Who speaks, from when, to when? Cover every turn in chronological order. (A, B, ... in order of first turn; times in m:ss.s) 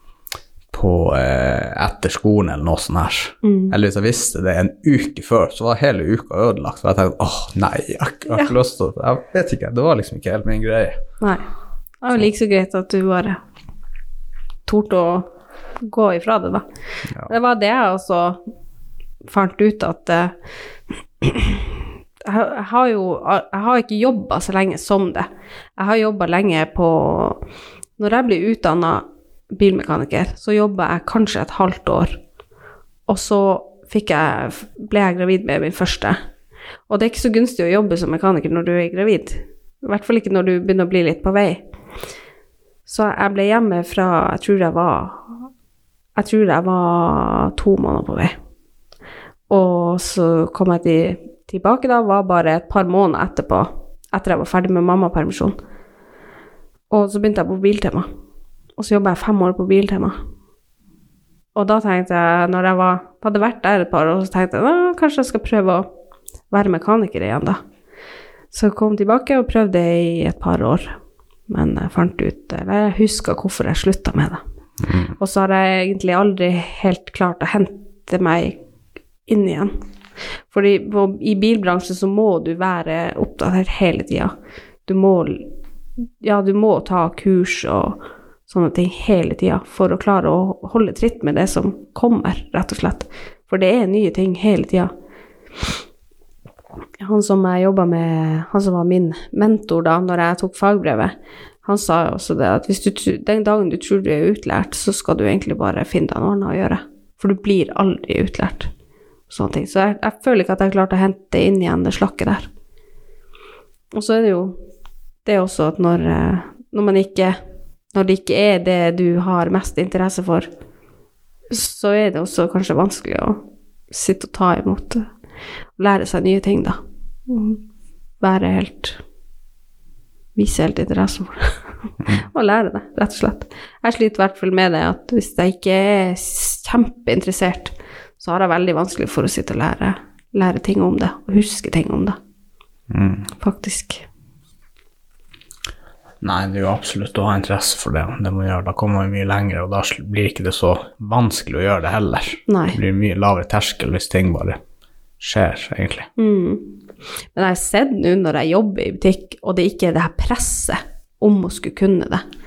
0:00.7-0:11.0 A
0:03.4-0:03.7 B
0:12.0-0:13.4 B
0:14.6-0:15.3 B
0:15.8-0:16.6 B
0:17.2-0:18.4 B
0:19.3-0:20.3 B
0:21.2-0:27.4 B
0:28.0-0:32.2 B
0:33.1-0:36.2 B
0:36.9-0:41.6 B
0:42.8-0:45.3 B
0:46.2-0:48.4 B
0:49.5-0:55.5 B
0:56.9-0:58.1 B
0:58.8-1:00.2 B
1:01.6-1:05.9 B
1:06.5-1:07.6 B
1:08.5-1:11.0 B
1:11.5-1:14.4 B
1:14.8-1:15.1 A
1:15.2-1:18.6 B
1:19.3-1:19.7 B
1:20.5-1:24.3 B
1:24.8-1:25.4 B
1:26.2-1:34.9 B
1:37.0-1:48.7 B
1:49.3-1:52.5 B
1:53.9-1:54.6 B
1:55.2-1:57.4 B
1:57.9-2:00.5 B
2:01.5-2:03.4 B
2:03.9-2:05.0 B
2:05.8-2:07.6 B
2:08.2-2:09.0 B
2:10.4-2:22.2 B
2:22.9-2:23.3 A
2:23.4-2:24.0 B
2:26.2-2:34.6 A
2:32.5-2:32.8 B
2:35.2-2:36.1 A
2:36.2-2:36.6 B
2:37.3-2:42.2 B